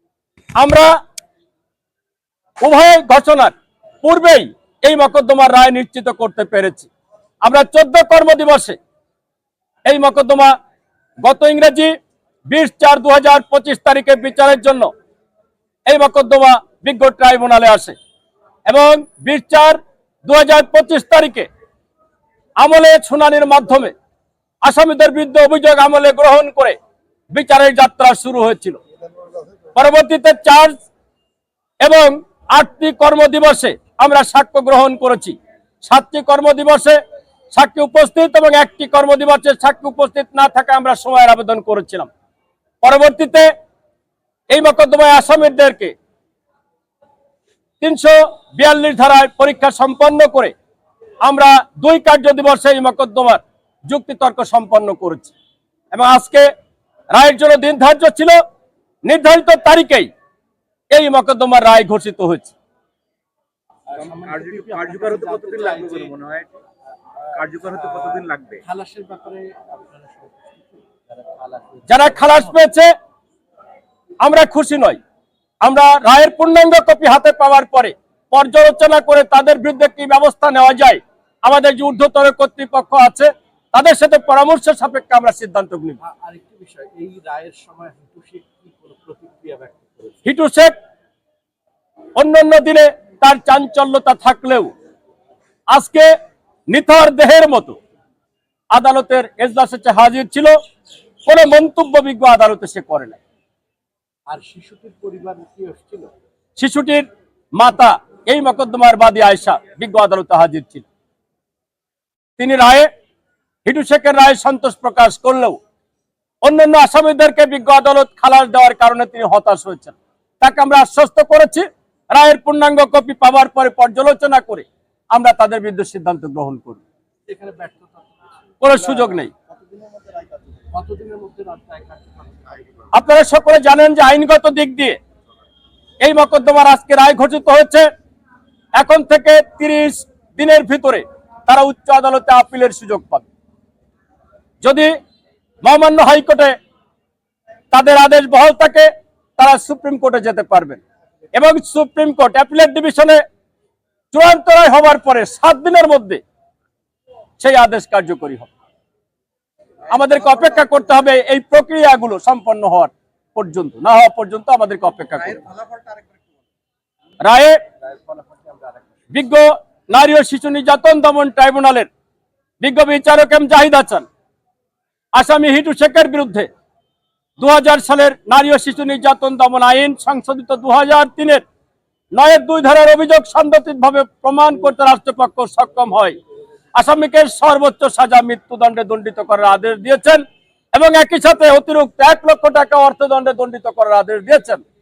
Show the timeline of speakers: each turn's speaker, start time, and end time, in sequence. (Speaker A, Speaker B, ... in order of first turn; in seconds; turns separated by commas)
Speaker A: 0.6-0.9, Speaker A: 2.6-6.9, Speaker A: 7.4-8.8, Speaker A: 9.8-10.5, Speaker A: 11.2-11.9, Speaker A: 12.5-14.9, Speaker A: 15.9-17.9, Speaker A: 18.6-21.5, Speaker A: 22.6-23.9, Speaker A: 24.6-26.8, Speaker A: 27.3-28.8, Speaker A: 29.7-30.8, Speaker A: 31.8-37.0, Speaker A: 37.5-42.1, Speaker A: 42.8-43.5, Speaker A: 44.5-45.9, Speaker A: 47.8-50.5, Speaker A: 51.2-55.3, Speaker A: 55.9-56.5, Speaker A: 57.1-58.4, Speaker A: 59.0-60.1, Speaker A: 60.9-62.5, Speaker B: 63.9-66.1, Speaker C: 64.0-66.6, Speaker B: 67.2-72.5, Speaker C: 67.3-68.6, Speaker A: 71.9-72.9, Speaker A: 74.2-75.0, Speaker A: 75.6-86.0, Speaker B: 86.0-90.2, Speaker A: 90.2-90.7, Speaker A: 92.2-94.7, Speaker A: 95.7-96.1, Speaker A: 96.7-97.8, Speaker A: 98.7-100.5, Speaker A: 101.3-103.2, Speaker B: 104.3-106.1, Speaker A: 106.6-110.8, Speaker A: 112.4-112.9, Speaker A: 113.7-115.6, Speaker A: 116.4-126.8, Speaker B: 127.3-132.9, Speaker A: 128.6-129.3, Speaker A: 132.9-135.0, Speaker A: 136.0-137.9, Speaker A: 138.8-143.3, Speaker A: 144.6-144.9, Speaker A: 145.6-146.5, Speaker A: 147.7-150.8, Speaker A: 151.3-153.2, Speaker A: 154.1-156.2, Speaker A: 157.4-158.5, Speaker A: 159.9-165.4, Speaker B: 165.4-166.0, Speaker A: 167.2-167.6, Speaker B: 167.8-168.8, Speaker A: 169.1-171.9, Speaker A: 172.6-174.1, Speaker A: 175.1-176.5, Speaker A: 177.4-181.4, Speaker A: 182.1-186.2, Speaker A: 186.7-190.2, Speaker A: 190.7-194.6